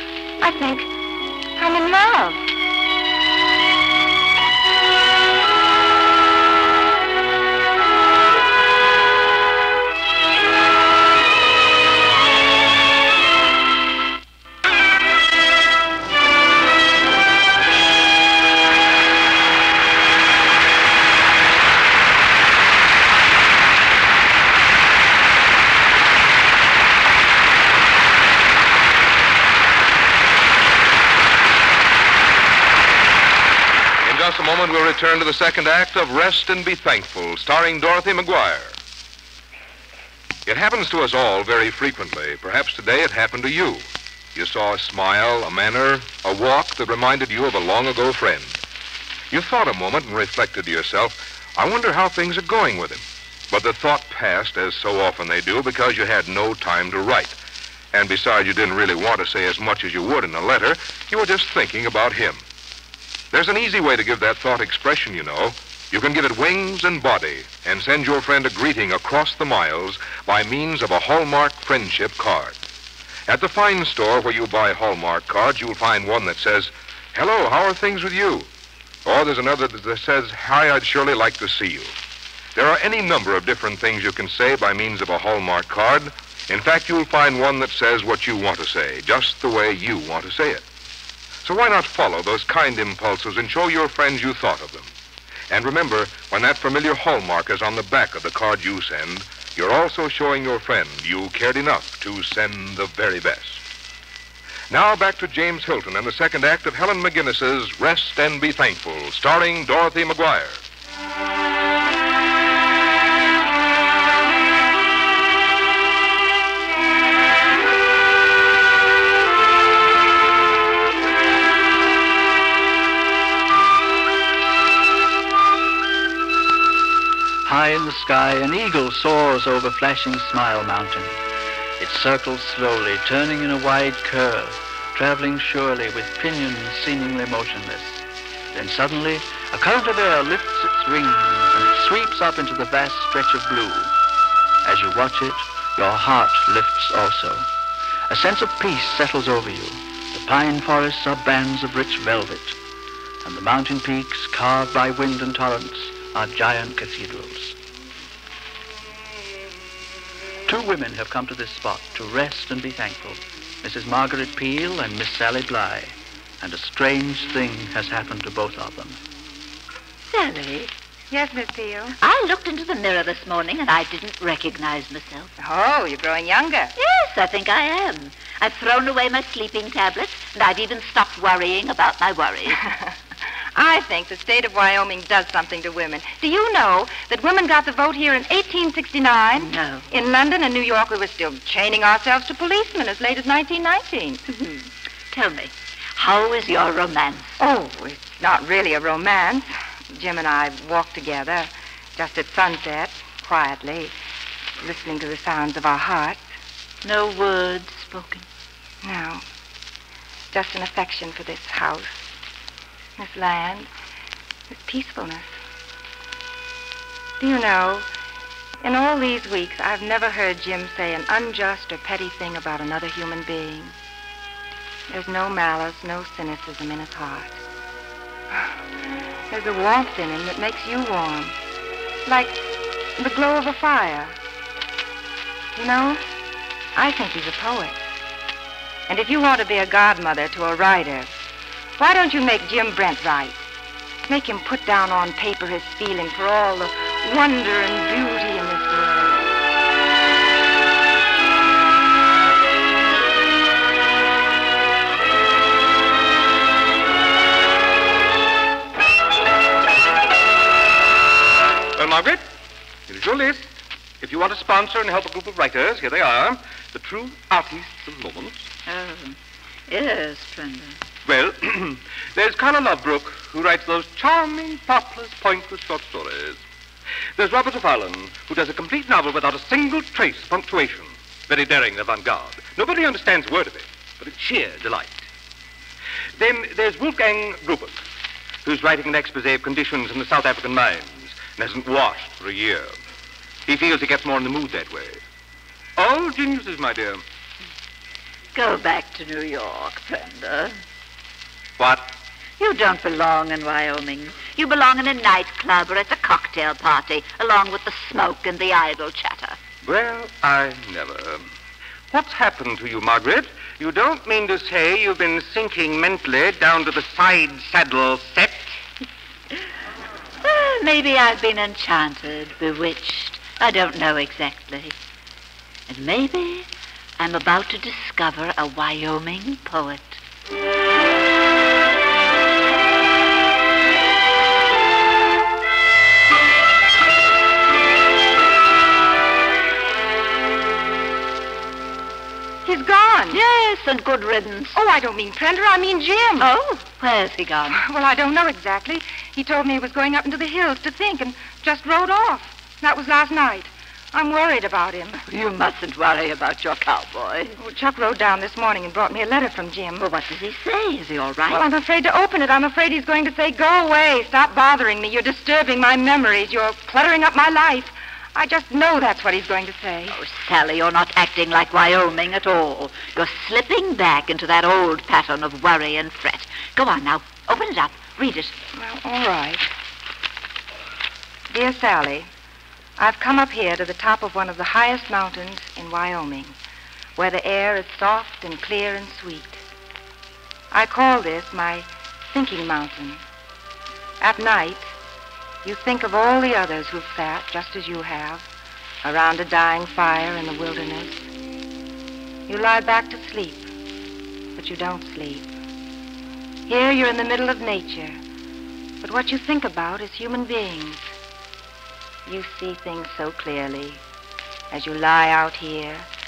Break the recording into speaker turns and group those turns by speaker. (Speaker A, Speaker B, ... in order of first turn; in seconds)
Speaker A: 0.4-0.9, 1.6-2.5, 171.1-172.0, 175.4-176.7, 182.6-182.9, 183.6-194.2, 197.4-203.9, 204.6-206.3, 208.8-209.2, 210.3-212.0, 213.0-213.7, 214.5-215.4, 217.2-217.9, 218.6-223.8, 224.9-227.4, 228.3-228.6, 229.3-231.4, 232.1-232.4, 233.0-234.2, 235.6-236.0, 236.8-237.9, 238.9-241.1, 241.8-243.4, 244.1-249.3, 342.4-343.2, 344.5-346.3, 347.5-355.0, 357.4-359.9, 361.3-370.0, 378.5-379.5, 381.3-382.1, 382.8-386.4, 387.0-389.4, 390.5-393.0, 394.0-394.7, 395.4-398.3, 398.8-401.1, 402.3-403.5, 404.4-405.3, 406.5-408.0, 408.8-410.9, 412.1-413.8, 414.5-415.9
Speaker B: 34.0-38.8, 40.5-48.6, 49.3-57.4, 57.9-62.4, 63.3-72.6, 73.3-78.5, 79.0-82.0, 82.5-90.6, 91.4-94.9, 95.5-103.6, 104.7-110.6
Speaker C: 127.4-131.2, 131.8-143.9, 144.6-147.5, 148.1-152.6, 153.2-157.6, 160.5-169.0
Speaker D: 170.1-170.7, 172.0-175.3, 176.8-182.6, 189.4-189.9, 194.3-197.4, 206.8-208.3, 268.7-269.2, 269.7-270.8, 298.3-300.6, 302.4-309.4, 320.2-324.8, 325.7-326.5, 327.0-330.0, 343.1-344.6, 346.2-347.6, 355.1-357.4, 359.8-361.4, 369.9-378.4
Speaker E: 261.8-262.2, 262.9-268.5, 271.1-276.4, 277.1-285.1, 286.2-287.8, 288.4-292.8, 293.5-295.0, 295.8-297.0, 301.6-301.9, 309.6-311.3, 311.9-318.6